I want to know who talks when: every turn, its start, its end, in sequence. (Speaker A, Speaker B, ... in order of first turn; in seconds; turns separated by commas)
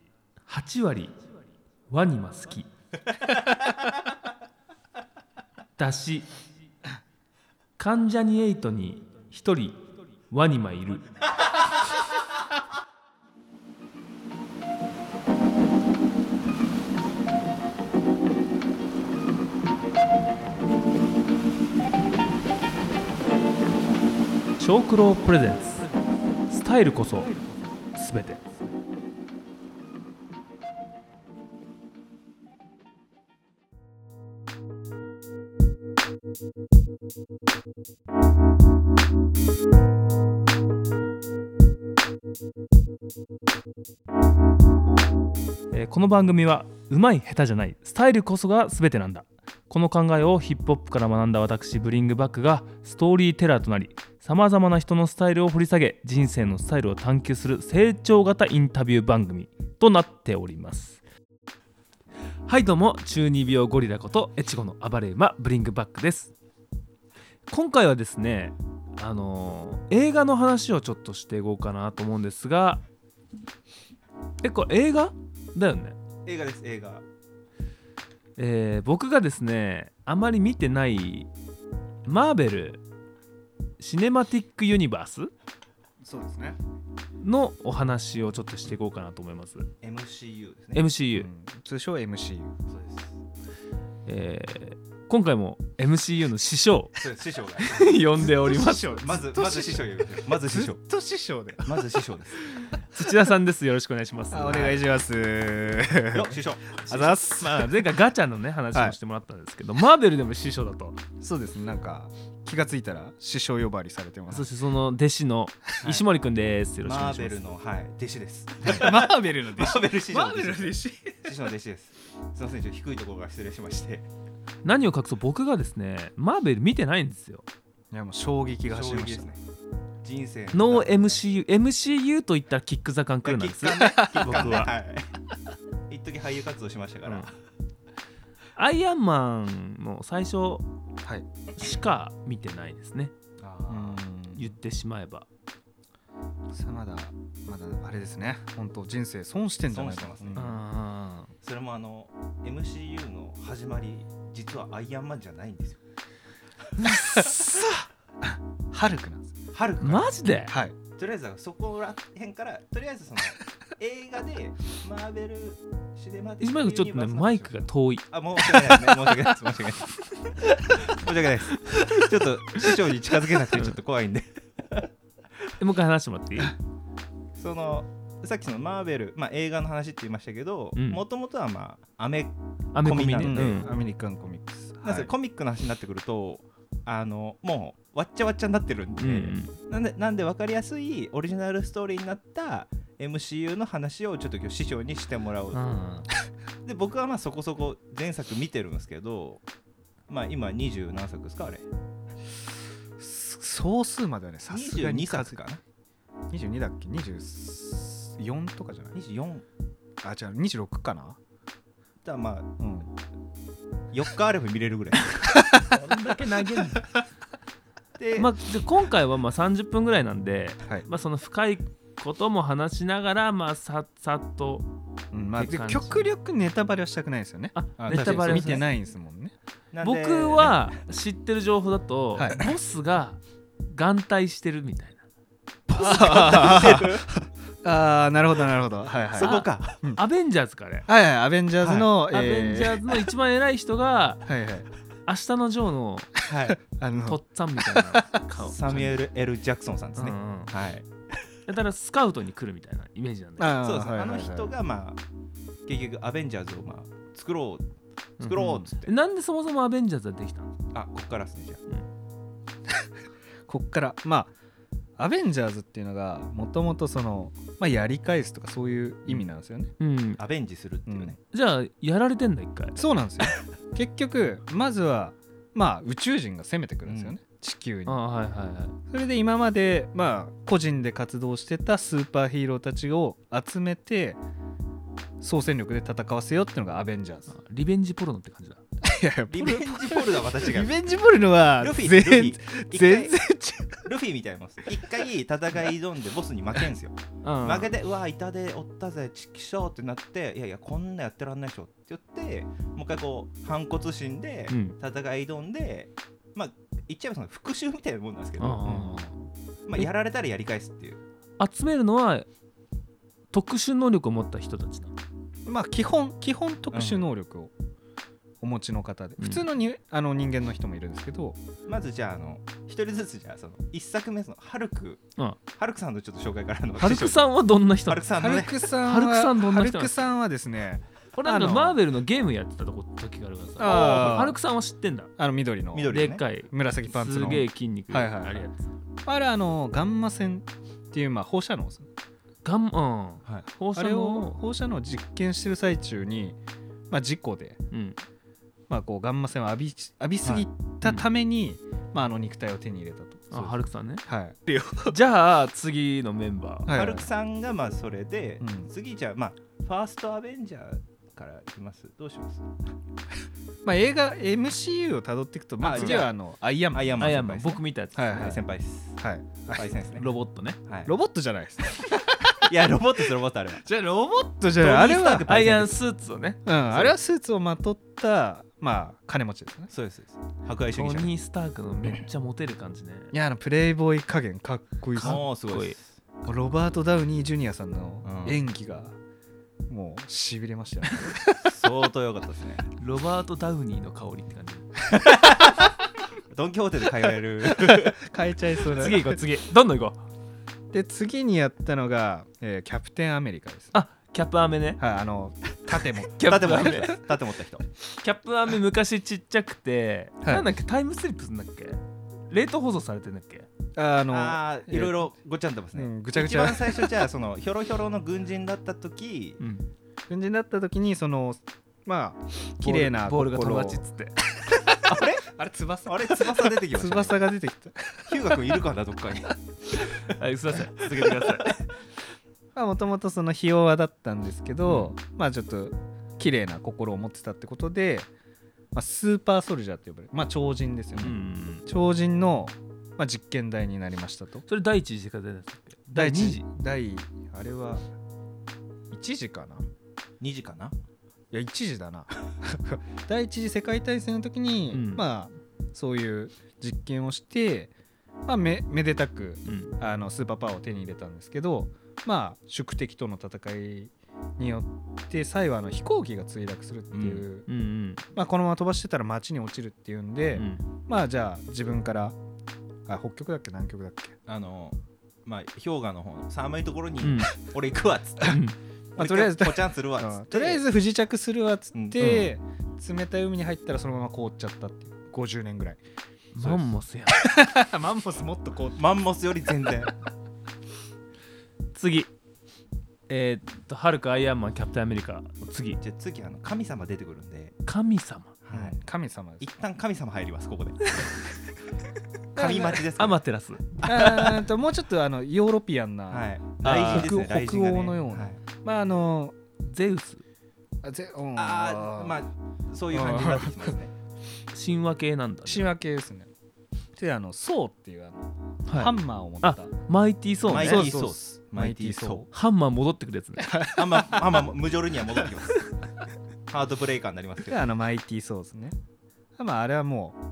Speaker A: 0.5-1.2, Speaker A: 1.9-2.7, Speaker A: 5.8-6.3, Speaker A: 7.8-11.0, Speaker A: 24.6-25.9, Speaker A: 26.5-28.5, Speaker A: 45.7-61.0, Speaker A: 62.5-66.3, Speaker A: 67.5-72.8, Speaker A: 74.4-76.0, Speaker B: 76.2-77.0, Speaker A: 78.4-81.3, Speaker A: 82.0-82.8, Speaker A: 83.8-85.3, Speaker C: 86.0-86.6, Speaker A: 87.2-89.7, Speaker B: 89.8-90.8, Speaker A: 90.7-91.3, Speaker C: 91.1-92.5, Speaker B: 92.7-93.2, Speaker A: 94.0-97.0, Speaker B: 97.0-97.9, Speaker A: 97.6-99.0, Speaker C: 98.2-102.0, Speaker B: 99.0-100.8, Speaker B: 101.6-102.4, Speaker C: 102.5-102.8, Speaker A: 102.9-104.8, Speaker C: 104.3-107.7, Speaker B: 106.1-107.4, Speaker A: 107.4-111.0, Speaker C: 111.2-114.5, Speaker A: 114.3-117.4, Speaker B: 116.8-124.0, Speaker C: 118.6-121.3, Speaker A: 124.6-127.4, Speaker C: 127.9-129.3, Speaker B: 128.7-129.4, Speaker B: 130.0-131.2, Speaker A: 130.5-134.7, Speaker B: 133.2-135.1, Speaker C: 133.7-134.6, Speaker B: 135.9-137.3, Speaker A: 137.0-137.3, Speaker A: 138.6-140.6, Speaker A: 141.6-143.1, Speaker B: 143.4-144.0, Speaker C: 143.7-144.5, Speaker A: 144.3-145.2, Speaker C: 146.5-150.6, Speaker B: 149.7-150.5, Speaker A: 150.3-151.3, Speaker B: 151.4-155.8, Speaker C: 157.0-159.3, Speaker B: 159.5-160.2, Speaker A: 159.8-160.6, Speaker C: 160.5-160.8, Speaker B: 160.9-169.9, Speaker A: 166.4-168.1, Speaker B: 170.7-174.8, Speaker A: 171.7-172.1, Speaker A: 175.6-176.5, Speaker B: 177.3-183.8, Speaker A: 180.8-181.0, Speaker A: 182.7-183.7, Speaker C: 183.2-185.1, Speaker B: 184.8-195.8, Speaker A: 189.0-189.5, Speaker A: 195.5-196.1, Speaker B: 196.6-199.4, Speaker B: 200.1-201.6, Speaker C: 203.0-205.4, Speaker B: 204.5-205.6, Speaker C: 206.3-209.0, Speaker B: 208.9-209.4, Speaker C: 210.0-211.2, Speaker B: 212.0-212.5, Speaker C: 212.6-212.9, Speaker B: 213.9-215.3, Speaker A: 215.6-216.9, Speaker B: 218.0-218.3, Speaker A: 218.1-224.7, Speaker C: 225.1-229.3, Speaker A: 225.3-226.1, Speaker A: 227.5-228.6, Speaker B: 227.8-228.7, Speaker B: 229.7-230.8, Speaker A: 229.8-235.0, Speaker C: 232.2-232.4, Speaker B: 235.7-237.1, Speaker C: 235.7-237.0, Speaker C: 237.6-240.0, Speaker B: 239.1-239.8, Speaker A: 239.2-240.9, Speaker C: 240.9-242.9, Speaker B: 241.6-241.9, Speaker A: 242.1-244.2, Speaker C: 244.2-244.7, Speaker A: 245.1-246.1, Speaker B: 246.3-246.6, Speaker C: 246.4-248.0, Speaker A: 247.1-249.0, Speaker B: 248.4-250.8, Speaker A: 250.0-250.5, Speaker A: 251.4-253.6, Speaker C: 253.4-254.5, Speaker B: 253.6-255.0, Speaker B: 255.7-257.6, Speaker B: 258.2-258.9, Speaker A: 258.2-260.5, Speaker C: 258.4-258.7, Speaker B: 260.7-261.6, Speaker C: 263.5-264.3, Speaker C: 265.0-269.7, Speaker A: 269.8-270.2, Speaker B: 270.2-271.2, Speaker C: 270.9-271.1, Speaker A: 271.3-272.8, Speaker C: 272.8-278.0, Speaker B: 276.8-277.1, Speaker A: 277.9-278.8, Speaker C: 278.9-284.2, Speaker C: 285.2-287.3, Speaker A: 287.3-288.6, Speaker C: 288.8-293.9, Speaker B: 289.3-290.7, Speaker B: 291.6-293.2, Speaker B: 293.8-308.6, Speaker A: 297.2-297.7, Speaker A: 304.5-304.8, Speaker A: 308.4-309.1, Speaker C: 308.6-309.1, Speaker B: 309.7-311.0, Speaker A: 311.4-312.3, Speaker A: 313.3-314.9, Speaker C: 315.4-317.5, Speaker B: 316.7-317.1, Speaker C: 318.4-321.4, Speaker A: 319.2-319.4, Speaker B: 321.7-325.0, Speaker B: 325.6-327.3, Speaker A: 326.8-328.0, Speaker B: 327.9-328.6, Speaker C: 328.1-331.8, Speaker A: 328.8-329.9, Speaker A: 331.1-335.1, Speaker C: 333.6-334.4, Speaker C: 335.2-336.0, Speaker B: 335.7-336.2, Speaker A: 335.9-338.5, Speaker C: 336.5-338.5, Speaker C: 339.0-341.9, Speaker A: 342.4-344.4, Speaker C: 343.7-346.4, Speaker C: 346.9-347.6, Speaker A: 347.7-348.0, Speaker C: 348.7-354.9, Speaker A: 353.3-354.0, Speaker A: 354.9-356.7, Speaker C: 356.6-357.1, Speaker B: 356.7-362.4, Speaker C: 358.4-358.7, Speaker C: 363.6-367.1, Speaker B: 365.6-366.1, Speaker B: 366.7-369.0, Speaker A: 367.0-368.0, Speaker C: 367.9-368.4, Speaker C: 369.0-369.7, Speaker B: 369.5-370.1, Speaker A: 369.9-370.6, Speaker B: 370.6-370.9, Speaker C: 370.8-373.1, Speaker B: 372.3-373.6, Speaker C: 373.6-375.3, Speaker B: 374.6-375.7, Speaker A: 375.3-376.6, Speaker C: 376.4-379.7, Speaker B: 379.7-381.1, Speaker A: 380.7-383.1, Speaker C: 383.1-385.2, Speaker A: 384.9-385.8, Speaker B: 385.0-386.0, Speaker C: 386.2-388.9, Speaker B: 388.0-388.4, Speaker C: 389.7-391.5, Speaker B: 391.4-392.6, Speaker A: 392.8-394.7, Speaker B: 395.1-395.7, Speaker B: 396.3-398.0, Speaker C: 397.6-399.2, Speaker A: 398.8-400.0, Speaker C: 400.7-403.7, Speaker A: 403.7-404.8, Speaker C: 404.8-406.8, Speaker A: 406.2-406.9, Speaker B: 406.2-407.6, Speaker A: 408.0-413.5, Speaker C: 413.8-415.1, Speaker B: 414.1-419.4, Speaker C: 415.7-417.0, Speaker A: 419.4-419.6, Speaker C: 420.1-423.8, Speaker A: 422.6-424.1, Speaker C: 424.3-428.4, Speaker B: 424.8-425.3, Speaker B: 425.9-427.2, Speaker B: 428.1-429.4, Speaker A: 430.1-431.5, Speaker B: 430.8-431.5, Speaker C: 432.5-438.1, Speaker C: 438.7-444.4, Speaker A: 440.9-441.6, Speaker A: 444.5-446.4, Speaker C: 445.9-447.9, Speaker C: 448.9-449.7, Speaker B: 450.2-450.7, Speaker C: 451.3-457.7, Speaker A: 454.7-455.1, Speaker C: 458.2-467.5, Speaker A: 459.4-459.7, Speaker B: 466.9-467.2, Speaker A: 467.5-468.0, Speaker C: 468.1-472.2, Speaker A: 470.3-470.6, Speaker C: 472.9-474.1, Speaker B: 474.3-478.4, Speaker A: 477.0-477.3, Speaker A: 478.2-478.6, Speaker B: 478.9-480.6, Speaker C: 479.0-485.8, Speaker B: 481.7-482.3, Speaker A: 482.0-482.3, Speaker A: 486.3-487.2, Speaker C: 487.1-488.8, Speaker B: 488.8-489.9, Speaker A: 491.7-492.1, Speaker A: 493.1-495.8, Speaker B: 495.8-497.5, Speaker A: 497.6-498.3, Speaker B: 498.4-498.8, Speaker C: 498.5-499.4, Speaker B: 499.4-501.0, Speaker C: 502.3-502.8, Speaker B: 502.4-503.2, Speaker A: 502.9-503.7, Speaker B: 503.8-504.4, Speaker C: 503.8-509.4, Speaker B: 506.1-508.4, Speaker A: 506.6-507.2, Speaker A: 509.6-510.2, Speaker C: 510.8-512.2, Speaker B: 511.4-513.9, Speaker C: 512.9-513.8, Speaker A: 514.5-515.7, Speaker C: 515.5-516.3, Speaker C: 517.0-519.7, Speaker A: 518.7-520.9, Speaker B: 520.5-522.3, Speaker C: 520.5-522.3, Speaker A: 522.3-523.5, Speaker C: 523.4-524.4, Speaker B: 523.7-525.6, Speaker B: 526.5-527.6, Speaker C: 527.5-528.8, Speaker C: 529.4-530.2